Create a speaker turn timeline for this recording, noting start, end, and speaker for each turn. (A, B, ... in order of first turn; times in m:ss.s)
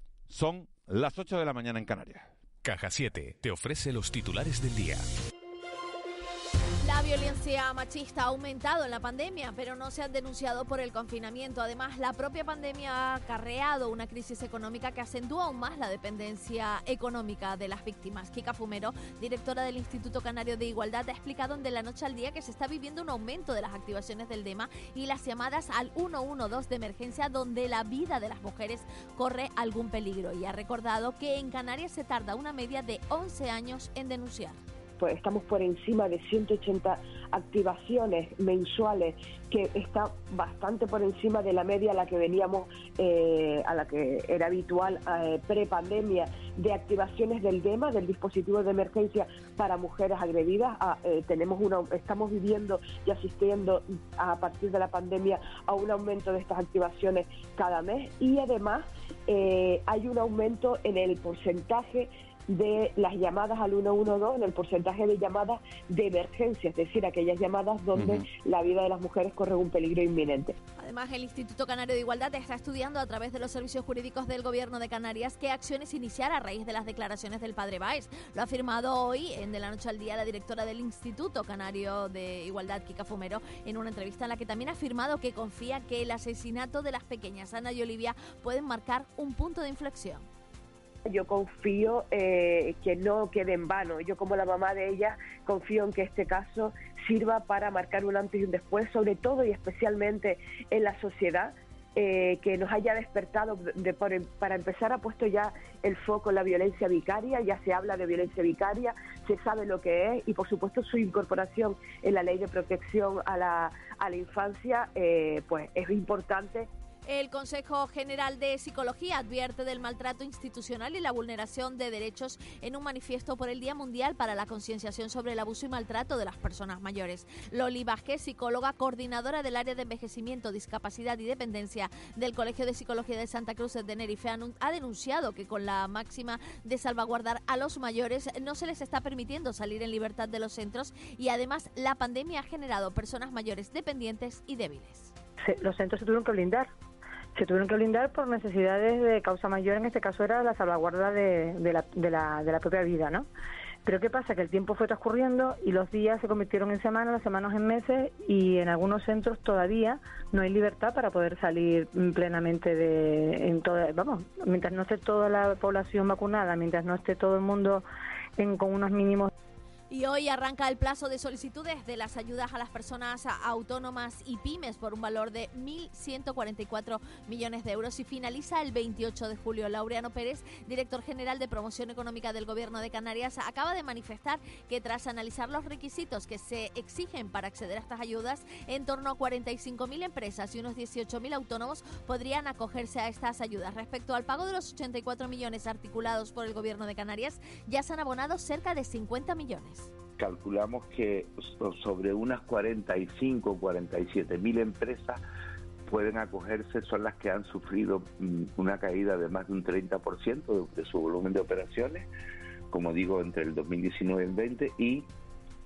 0:00.3-0:02.3 A
0:02.6-0:05.0 B
0:06.8-0:34.6 C
0:35.0-1:10.6 D
1:08.0-1:08.2 A
1:10.8-1:30.2 C
1:31.0-1:56.7 D
1:57.0-2:25.1 C
2:25.4-2:26.7 E
2:27.4-2:33.3 E
2:33.8-2:47.8 E
2:48.4-2:49.3 E
2:49.9-3:19.9 C
3:20.2-3:25.2 F
3:25.9-3:32.1 F
3:32.7-3:35.1 F